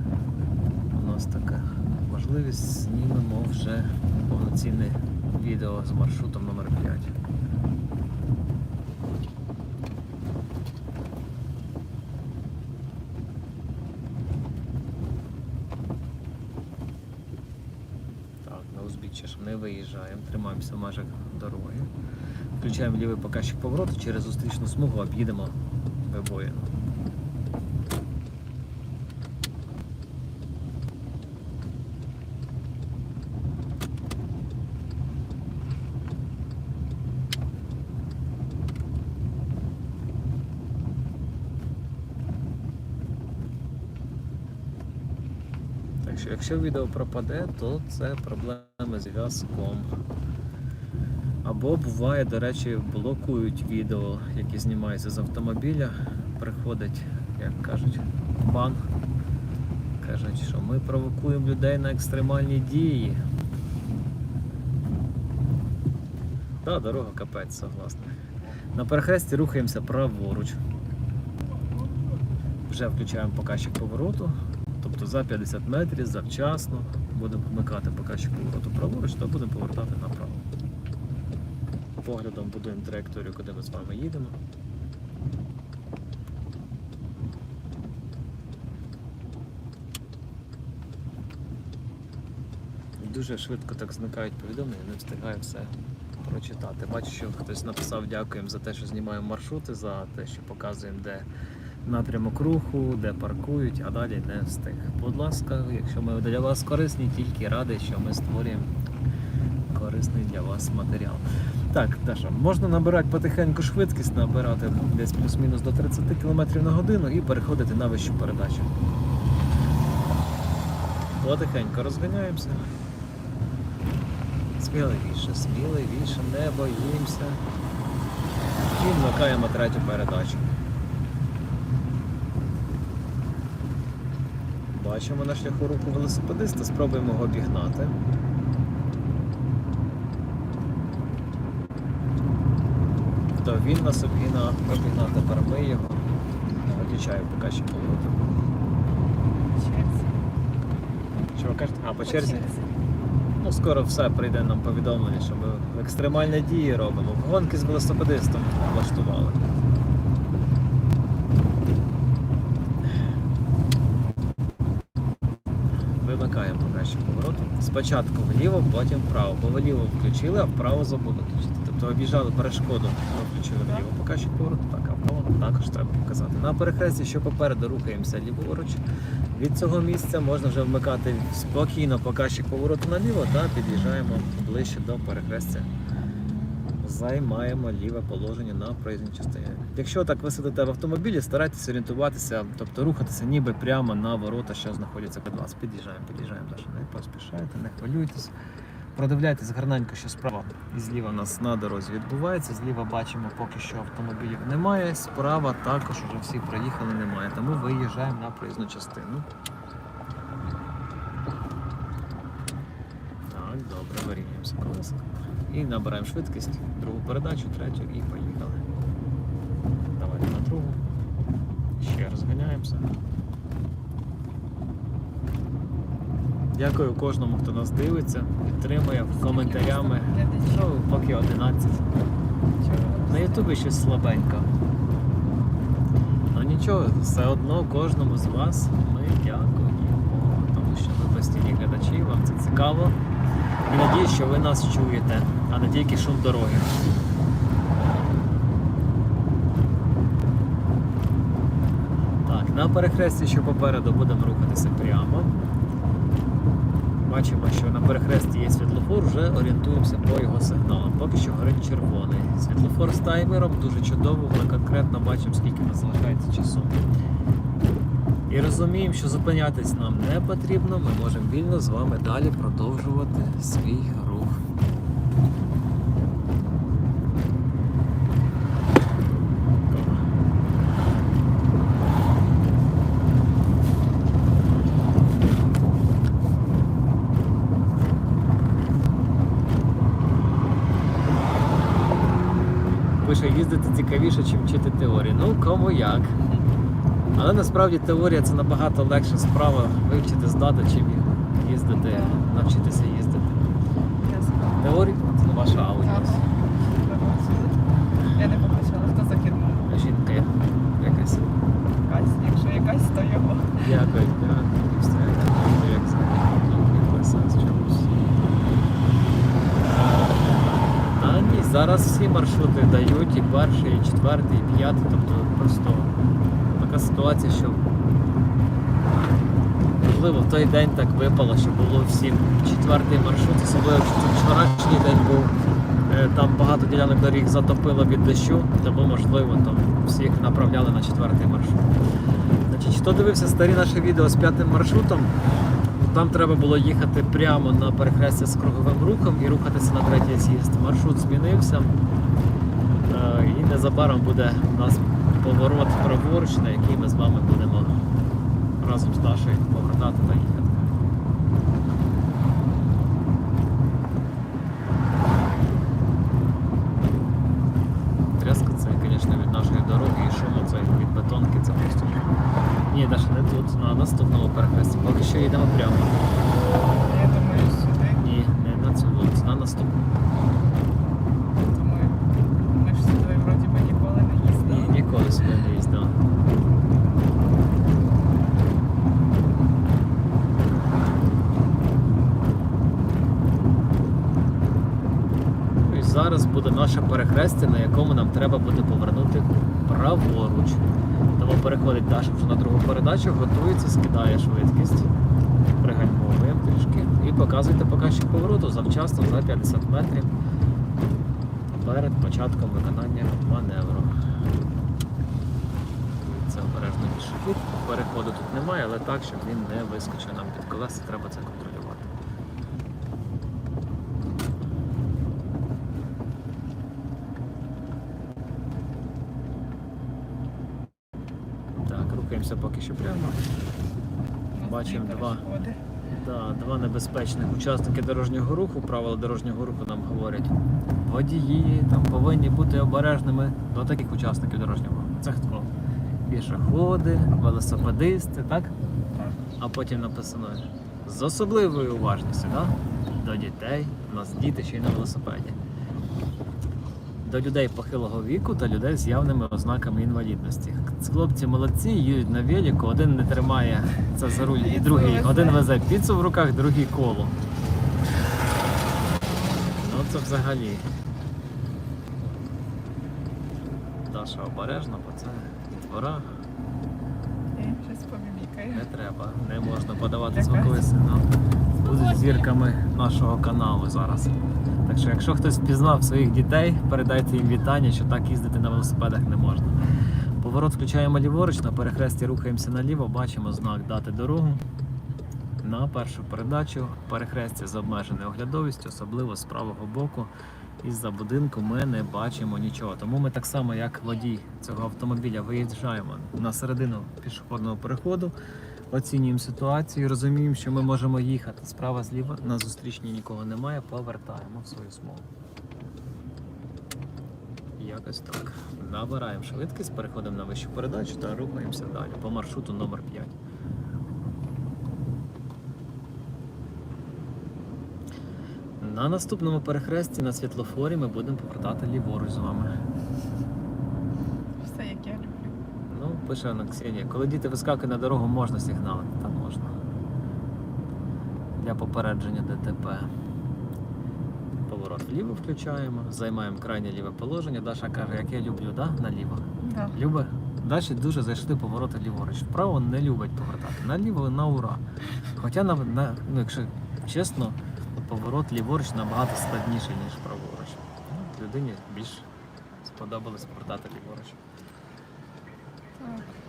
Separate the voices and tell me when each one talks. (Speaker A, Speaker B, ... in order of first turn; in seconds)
Speaker A: 0.9-7.2, 18.4-21.9, 22.6-26.7, 46.0-49.9, 51.4-58.9, 60.0-63.2, 66.6-68.2, 68.7-70.6, 72.7-80.4, 82.0-84.4, 93.0-101.3, 101.8-108.7, 109.7-118.7, 121.2-122.6, 124.6-127.4, 128.7-130.4, 134.7-137.9, 143.4-146.0, 146.8-148.2, 151.3-152.5, 153.4-159.4, 166.0-178.8, 179.3-185.7, 186.8-198.3, 198.9-209.3, 213.3-218.6, 220.0-220.8, 221.8-222.9, 226.5-231.8, 232.8-234.5, 236.3-243.0, 243.7-246.8, 252.2-255.3, 257.0-266.8, 268.3-274.4, 279.7-280.0, 293.0-296.2, 297.1-303.5, 304.6-306.2, 309.7-311.3, 313.6-317.9, 320.9-325.9, 326.5-327.6, 329.8-335.3, 335.9-341.7, 342.5-345.1, 345.8-351.8, 352.9-357.8, 358.6-360.7, 368.2-372.1, 372.7-376.0, 378.0-379.8, 384.5-386.0, 395.6-400.6, 401.2-404.9, 405.6-410.1, 411.5-413.9, 416.0-421.9, 431.6-433.2, 434.4-435.2, 436.0-445.5, 446.1-448.5, 449.4-455.4, 457.0-467.1, 469.6-470.7, 473.9-476.1, 478.5-481.1, 481.6-484.1, 484.6-489.6, 490.2-494.4, 495.4-500.1, 500.6-508.1, 508.7-515.1, 517.6-523.1, 528.6-532.5, 535.7-539.5, 541.4-542.9, 544.5-554.6, 555.1-562.1, 562.6-564.2
Speaker B: 146.6-146.9, 149.3-150.1, 152.0-152.6, 229.2-230.7, 232.6-233.5, 301.7-302.3, 304.1-304.6, 305.8-307.6, 308.1-309.7, 311.8-313.8, 376.9-378.0, 381.4-384.8, 434.3-435.6, 464.3-465.4, 477.3-478.7, 480.1-480.6, 481.6-482.3, 534.4-535.4, 549.4-549.8, 565.8-566.1